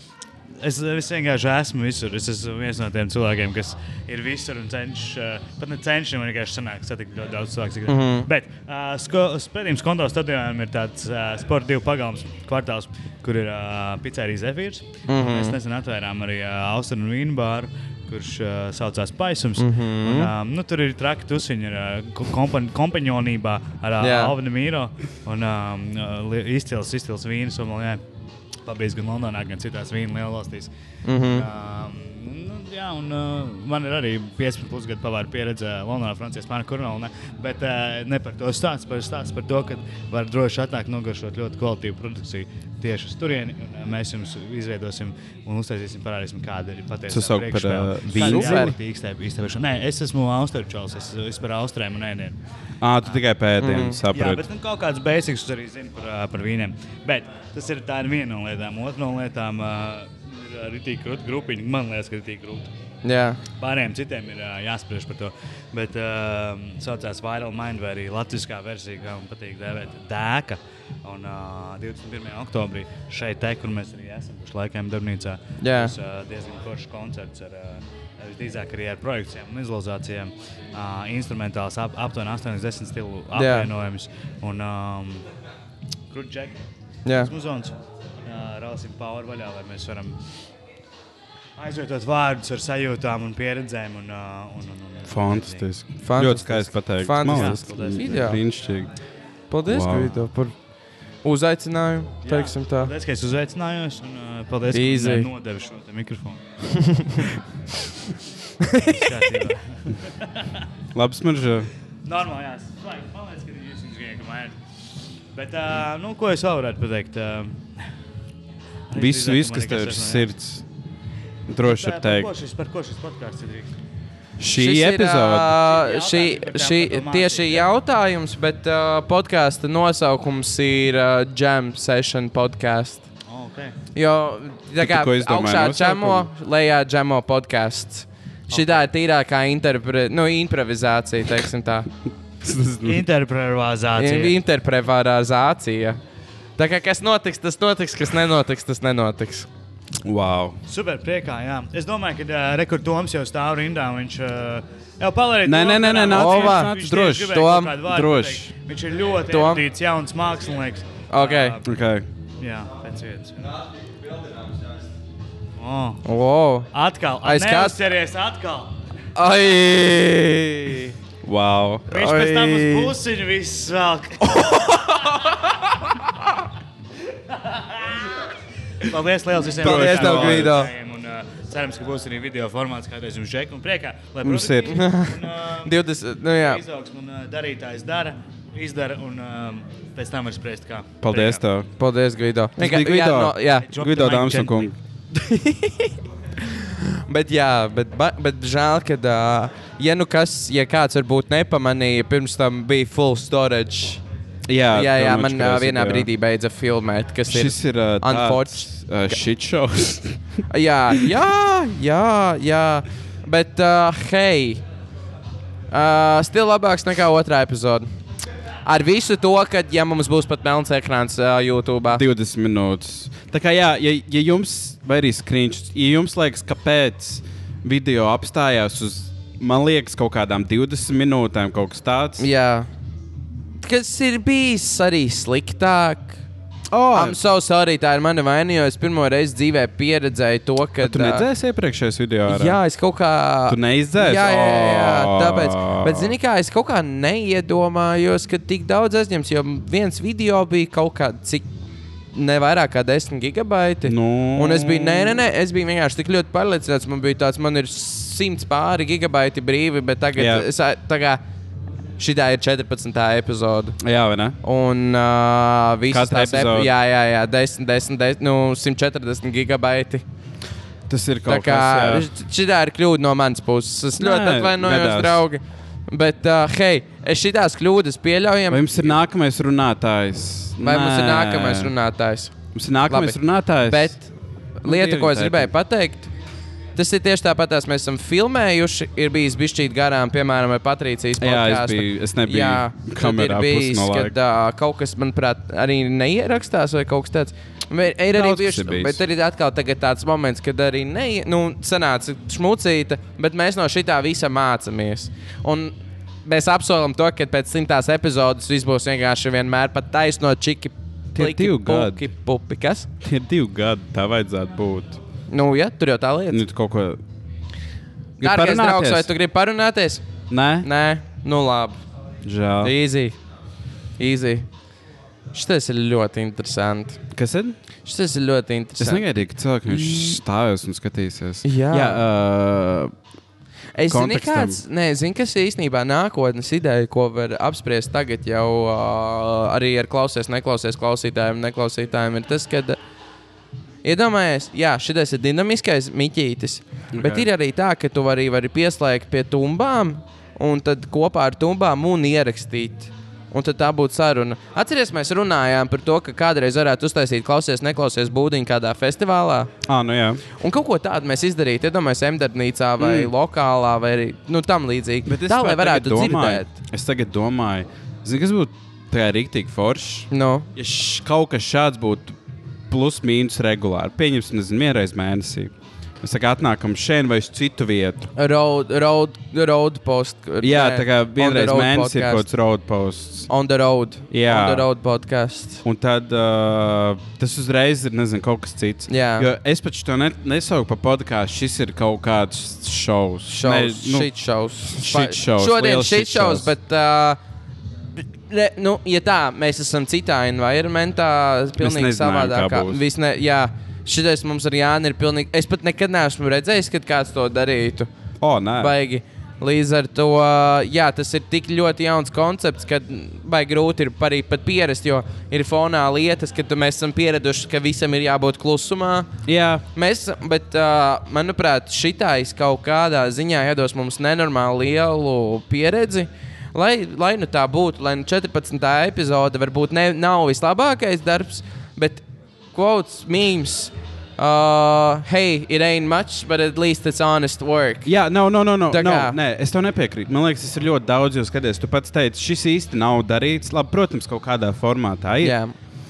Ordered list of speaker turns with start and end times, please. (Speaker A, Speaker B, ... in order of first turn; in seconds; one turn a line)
Speaker A: 0.6-28.0
Speaker B: 7.9-8.3
Speaker B: 15.1-15.6
Speaker B: 19.6-20.3
Speaker B: 24.0-24.3
Speaker A: 28.6-52.4
Speaker B: 31.1-31.5
Speaker C: 47.1-48.8
Speaker B: 48.1-48.8
Speaker C: 52.8-54.5
Speaker B: 53.6-54.0
Speaker A: 54.1-62.7
Speaker B: 63.0-63.4
Speaker A: 63.6-85.3
Speaker B: 75.6-75.9
Speaker B: 83.3-83.7
Speaker A: 86.1-86.6
Speaker B: 87.0-87.3
Speaker A: 87.1-90.2
Speaker A: 91.6-95.7
Speaker C: 95.1-98.9
Speaker B: 96.0-98.4
Speaker A: 97.2-98.3
Speaker B: 99.5-100.7
Speaker C: 99.7-100.1
Speaker B: 101.2-102.9
Speaker A: 102.2-106.4
Speaker B: 104.7-105.3
Speaker B: 108.6-109.0
Speaker A: 108.8-110.5
Speaker C: 110.9-111.7
Speaker A: 112.0-114.6
Speaker A: 115.3-117.7
Speaker A: 118.9-120.3
Speaker C: 118.9-120.7
Speaker C: 121.5-122.3
Speaker A: 121.6-123.7
Speaker C: 124.4-125.6
Speaker B: 124.5-133.1
Speaker A: 125.5-127.7
Speaker A: 133.3-133.8
Speaker B: 133.9-141.9
Speaker C: 134.8-136.3
Speaker A: 138.5-138.9
Speaker C: 142.4-143.0
Speaker A: 142.8-144.4
Speaker B: 144.0-146.0
Speaker B: 146.6-149.5
Speaker C: 150.0-150.6
Speaker A: 150.7-161.7
Speaker C: 155.4-158.5
Speaker B: 156.1-156.7
Speaker B: 157.3-157.7
Speaker B: 159.3-159.6
Speaker B: 161.1-161.6
Speaker C: 161.6-162.1
Speaker A: 162.4-163.6
Speaker A: 165.6-166.0
Speaker B: 166.1-166.7
Speaker A: 166.7-168.7
Speaker B: 167.2-167.8
Speaker B: 169.2-170.9
Speaker C: 171.2-171.9
Speaker A: 171.9-174.5
Speaker B: 171.9-173.0
Speaker B: 174.3-175.0
Speaker A: 177.5-177.9
Speaker A: 178.9-185.7
Speaker C: 179.6-180.7
Speaker B: 179.6-180.7
Speaker C: 184.2-184.8
Speaker B: 184.7-186.6
Speaker A: 186.3-191.4
Speaker C: 191.0-191.7
Speaker B: 191.8-193.7
Speaker C: 192.6-194.8
Speaker A: 193.6-194.7
Speaker B: 195.1-195.9
Speaker B: 196.6-204.0
Speaker C: 204.5-206.1
Speaker B: 204.7-209.2
Speaker C: 207.3-210.4
Speaker B: 210.5-214.6
Speaker B: 215.7-217.9
Speaker B: 218.7-222.0
Speaker C: 221.9-232.3
Speaker B: 232.2-232.7
Speaker B: 233.6-236.2
Speaker C: 236.7-237.2
Speaker B: 236.9-241.3
Speaker C: 240.8-242.6
Speaker B: 242.3-251.5
Speaker C: 243.5-246.1
Speaker B: 252.1-261.2
Speaker C: 253.8-255.2
Speaker C: 260.2-260.5
Speaker B: 262.0-263.8
Speaker C: 263.8-264.4
Speaker B: 264.4-270.1
Speaker C: 265.9-266.7
Speaker C: 270.9-272.1
Speaker B: 271.3-279.0
Speaker C: 274.0-275.2
Speaker C: 278.5-281.7
Speaker B: 280.6-286.1
Speaker C: 282.5-284.0
Speaker C: 284.6-285.5
Speaker B: 286.8-305.7
Speaker C: 291.2-294.1
Speaker C: 298.1-299.0
Speaker B: 306.2-312.9
Speaker C: 311.1-312.1
Speaker C: 313.0-315.0
Speaker B: 315.3-316.4
Speaker C: 316.3-317.0
Speaker C: 318.2-319.1
Speaker B: 318.2-320.1
Speaker C: 320.3-320.7
Speaker B: 320.6-321.8
Speaker C: 322.2-322.8
Speaker B: 322.6-323.2
Speaker B: 324.0-324.5
Speaker B: 325.3-327.0
Speaker C: 327.1-327.6
Speaker B: 327.9-329.0
Speaker C: 328.8-332.9
Speaker B: 329.7-330.2
Speaker B: 331.4-332.0
Speaker B: 333.8-342.8
Speaker C: 333.9-334.6
Speaker B: 343.8-359.5
Speaker C: 346.9-347.3
Speaker C: 359.6-360.2
Speaker B: 360.4-366.5
Speaker C: 362.8-363.1
Speaker C: 365.1-372.2
Speaker B: 370.1-370.5
Speaker C: 372.7-378.1
Speaker B: 378.2-382.3
Speaker C: 380.4-383.3
Speaker B: 383.3-385.6
Speaker C: 384.1-384.7
Speaker C: 385.6-394.1
Speaker B: 388.9-389.3
Speaker B: 393.3-397.2
Speaker C: 394.7-396.5
Speaker B: 398.0-407.9
Speaker C: 401.6-402.8
Speaker C: 408.2-408.7
Speaker B: 408.5-419.1
Speaker C: 419.3-419.6
Speaker B: 419.7-437.9
Speaker C: 437.9-445.4
Speaker B: 438.7-439.2
Speaker B: 445.2-445.5